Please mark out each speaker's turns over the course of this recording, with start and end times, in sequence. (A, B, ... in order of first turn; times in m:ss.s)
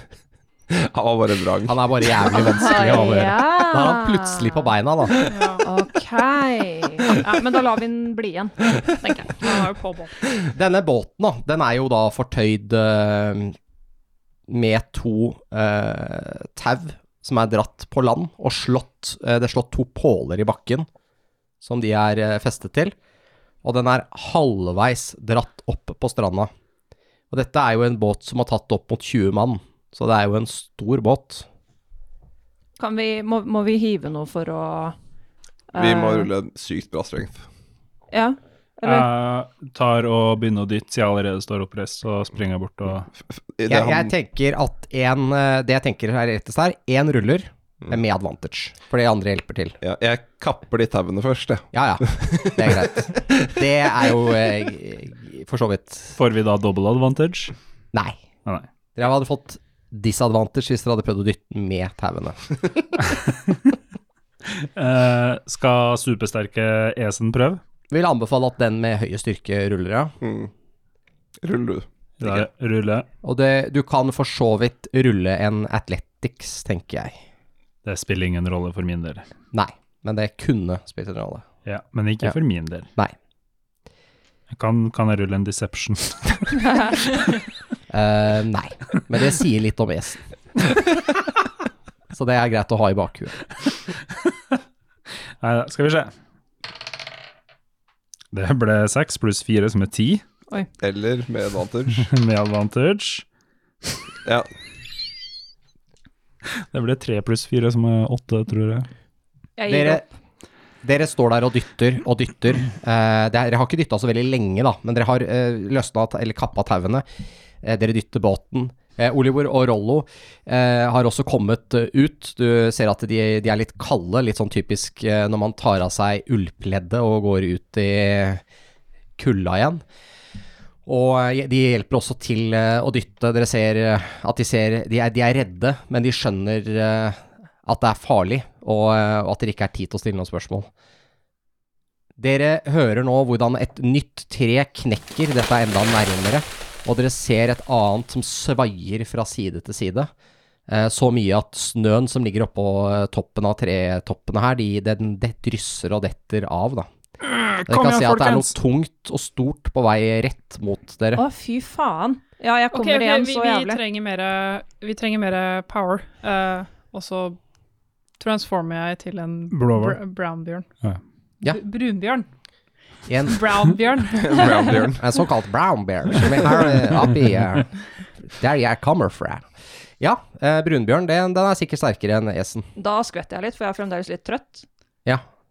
0:00.7-0:02.5 A
0:01.7-0:05.3 B
0:02.3-0:04.7 C
0:05.3-0:05.7 D
0:05.6-0:09.6 C
0:09.4-0:10.2 D
0:10.5-0:13.6 B
0:14.5-0:20.9 B
0:21.6-0:23.0 B
0:23.6-0:26.5 B
0:27.3-0:31.5 B
0:32.8-0:35.0 C
0:35.7-0:36.3 C
0:35.8-0:37.5 A
0:38.1-0:39.1 C
0:38.8-0:43.1 E
0:43.2-0:44.1 A
0:43.7-0:49.8 B
0:49.8-0:53.5 A
0:51.7-0:56.2 B
0:56.2-0:57.5 E
0:57.9-0:58.2 B
0:59.0-1:02.8 B
1:03.1-1:03.6 E
1:04.5-1:07.6 E
1:07.9-1:10.1 B
1:10.2-1:10.5 A
1:11.4-1:12.5 A
1:12.2-1:13.1 E
1:13.2-1:17.2 B
1:17.8-1:19.3 E
1:19.5-1:21.4 B
1:21.6-1:22.9 E
1:24.5-1:27.3 E
1:27.9-1:30.2 B
1:32.1-1:33.4 B
1:35.4-1:36.1 E
1:38.3-1:40.2 E
1:40.8-1:42.1 A
1:42.0-1:43.2 E
1:46.7-1:48.9 E
1:49.6-1:50.0 C
1:49.7-1:50.0 B
1:50.8-1:57.0 B
1:57.6-2:08.4 B
2:09.2-2:09.8 B
2:10.9-2:20.7 B
2:22.2-2:30.1 B
2:30.7-2:36.9 B
2:37.2-2:38.5 D
2:37.7-2:41.2 B
2:41.2-2:43.8 C
2:42.7-2:47.4 D
2:48.2-2:50.7 D
2:49.5-2:50.0 E
2:51.4-2:52.3 D
2:53.1-2:53.4 B
2:53.2-2:54.7 D
2:54.1-2:55.2 A
2:54.9-2:57.7 B
2:58.2-2:59.5 B
3:00.0-3:02.7 B
3:02.8-3:04.7 C